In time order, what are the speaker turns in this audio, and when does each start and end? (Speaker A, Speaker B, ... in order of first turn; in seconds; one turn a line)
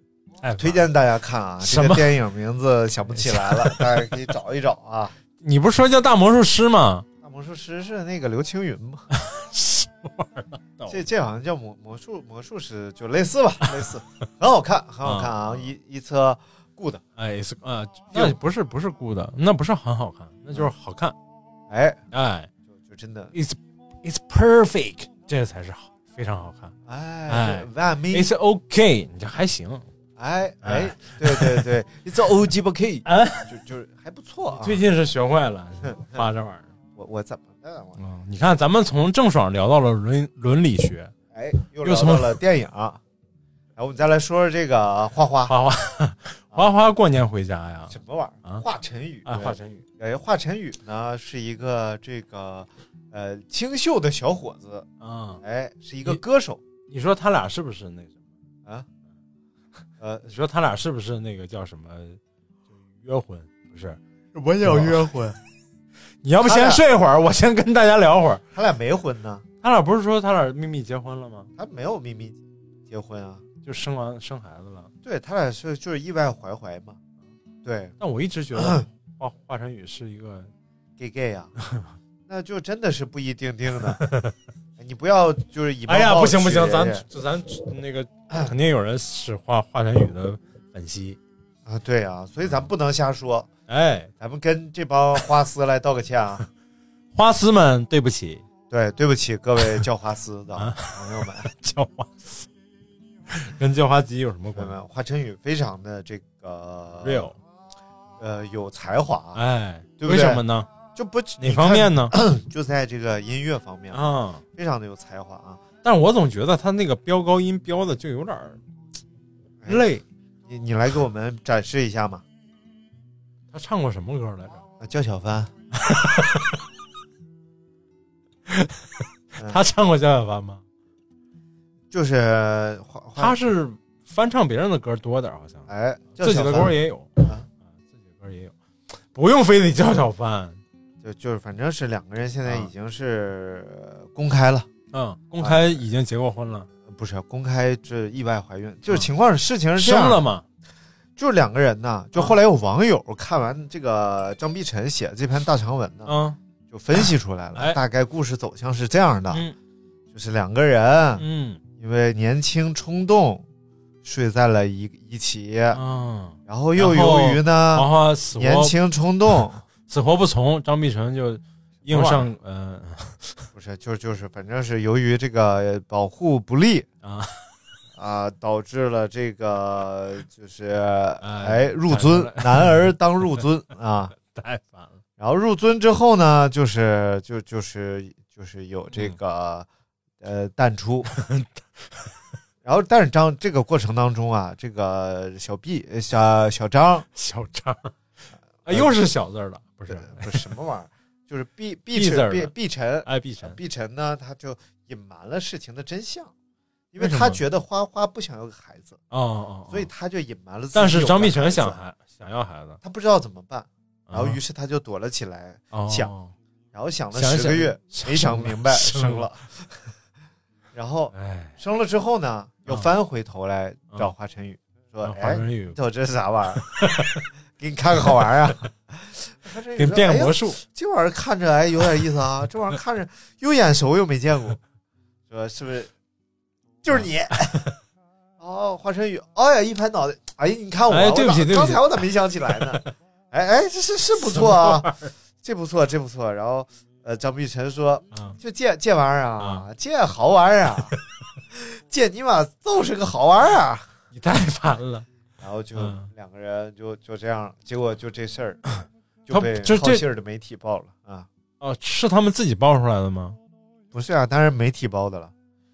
Speaker A: 0.4-0.9
Speaker B: 0.6-5.2
Speaker A: 1.6-2.1
Speaker A: 3.1-4.2
Speaker A: 5.4-7.0
Speaker B: 7.2-9.1
Speaker A: 9.1-11.0
Speaker B: 10.9-17.0
Speaker A: 15.0-15.7
Speaker A: 17.2-21.1
Speaker B: 21.7-22.0
Speaker A: 22.1-22.5
Speaker B: 22.7-23.3
Speaker A: 23.3-26.7
Speaker B: 26.9-28.3
Speaker A: 27.3-29.9
Speaker B: 30.2-34.8
Speaker A: 30.6-31.7
Speaker A: 33.0-33.5
Speaker A: 34.5-36.7
Speaker B: 35.8-36.2
Speaker B: 37.0-38.0
Speaker A: 38.0-41.1
Speaker B: 41.3-43.0
Speaker A: 41.8-42.4
Speaker B: 43.8-45.5
Speaker A: 45.5-48.6
Speaker B: 47.9-54.9
Speaker A: 49.2-49.8
Speaker A: 55.0-55.4
Speaker B: 55.4-56.6
Speaker A: 56.9-58.2
Speaker B: 60.0-60.3
Speaker A: 60.3-62.2
Speaker A: 62.9-64.0
Speaker B: 64.3-65.4
Speaker A: 64.6-65.3
Speaker A: 66.2-68.4
Speaker B: 66.4-66.8
Speaker B: 68.5-69.4
Speaker A: 69.6-71.5
Speaker B: 71.6-73.4
Speaker A: 73.6-74.9
Speaker B: 75.0-77.0
Speaker B: 77.6-78.0
Speaker A: 78.0-80.5
Speaker B: 78.5-78.9
Speaker B: 81.0-81.5
Speaker B: 82.3-84.0
Speaker A: 84.0-84.3
Speaker B: 84.8-87.0
Speaker A: 85.9-91.2
Speaker B: 91.6-93.5
Speaker A: 93.7-94.1
Speaker B: 94.2-96.4
Speaker A: 97.1-98.4
Speaker B: 98.7-101.5
Speaker A: 100.5-102.5
Speaker A: 103.3-104.8
Speaker B: 104.5-107.3
Speaker A: 107.0-107.3
Speaker B: 108.2-109.4
Speaker A: 109.3-110.7
Speaker B: 110.0-115.6
Speaker A: 111.4-112.2
Speaker A: 113.9-114.4
Speaker A: 115.8-118.6
Speaker B: 119.6-119.9
Speaker A: 119.7-120.0
Speaker B: 120.5-122.2
Speaker A: 123.5-124.6
Speaker B: 124.8-125.5
Speaker A: 125.8-126.4
Speaker A: 128.5-128.8
Speaker A: 129.4-130.6
Speaker B: 131.9-133.5
Speaker A: 133.2-140.6
Speaker B: 135.7-137.4
Speaker B: 141.0-144.7
Speaker A: 144.9-146.7
Speaker B: 145.4-145.8
Speaker B: 146.9-150.2
Speaker A: 149.8-150.4
Speaker B: 151.2-156.1
Speaker A: 156.1-156.4
Speaker B: 156.7-159.4
Speaker A: 156.9-157.8
Speaker B: 160.1-161.2
Speaker A: 161.2-161.6
Speaker B: 161.8-163.4
Speaker B: 164.0-165.8
Speaker A: 165.7-168.7
Speaker B: 166.4-169.6
Speaker A: 169.9-173.5
Speaker B: 171.8-172.3
Speaker B: 173.5-176.9
Speaker A: 177.0-177.4
Speaker B: 177.9-184.1
Speaker A: 181.2-183.4
Speaker A: 184.2-185.0
Speaker B: 185.2-189.7
Speaker B: 190.2-191.2
Speaker A: 191.1-192.1
Speaker B: 192.6-197.1
Speaker A: 197.1-197.9
Speaker A: 198.6-200.4
Speaker B: 198.7-199.0
Speaker B: 199.9-206.3
Speaker A: 201.9-202.5
Speaker A: 203.0-203.6
Speaker B: 206.9-209.0
Speaker A: 207.0-207.4
Speaker A: 209.1-209.9
Speaker B: 209.7-211.8
Speaker A: 210.7-212.8
Speaker B: 212.8-216.1
Speaker A: 214.1-214.4
Speaker A: 215.7-216.3
Speaker B: 216.7-219.9
Speaker A: 217.1-219.3
Speaker B: 220.7-226.8
Speaker A: 221.1-221.6
Speaker A: 225.0-225.8
Speaker A: 226.6-227.2
Speaker B: 227.6-234.6
Speaker A: 229.8-230.6
Speaker B: 235.3-235.9
Speaker B: 236.8-237.6
Speaker A: 236.9-237.7
Speaker B: 238.4-250.9
Speaker A: 240.9-242.1
Speaker A: 242.6-242.9
Speaker A: 244.3-245.1
Speaker A: 249.4-249.7
Speaker B: 251.5-253.9
Speaker A: 254.1-255.1
Speaker B: 255.4-258.6
Speaker A: 255.8-256.1
Speaker B: 259.2-261.3
Speaker A: 259.3-260.0
Speaker A: 261.6-263.4
Speaker B: 263.9-265.3